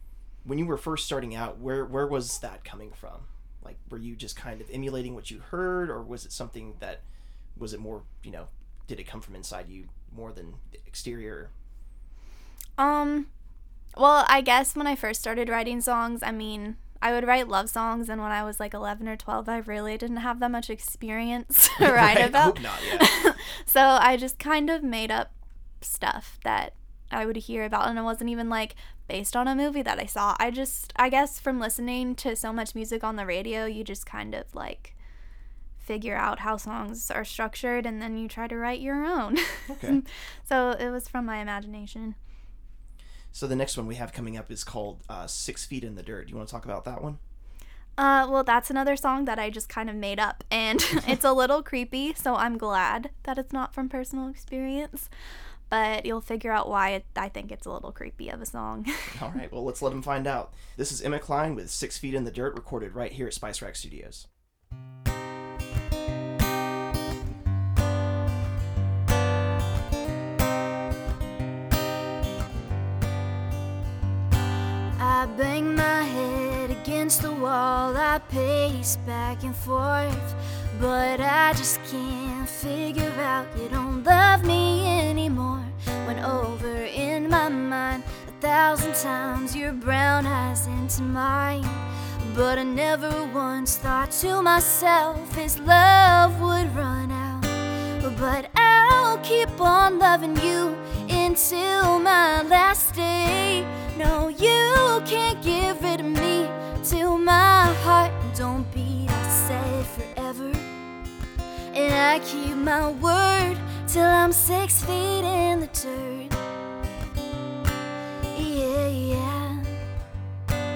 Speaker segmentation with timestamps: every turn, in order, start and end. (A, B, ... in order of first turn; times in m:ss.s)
0:00.4-0:07.0 A
0:07.6-0:11.5 A
0:12.8-0:13.3 B
0:14.0-0:35.0 B
0:21.8-0:23.1 A
0:35.8-0:42.2 B
0:39.7-0:40.0 A
0:43.3-0:47.2 A
0:48.0-0:55.1 B
0:55.7-0:59.3 B
0:59.1-1:04.2 A
1:15.0-1:50.7 C
1:51.7-1:56.3 C
1:58.3-1:59.8 C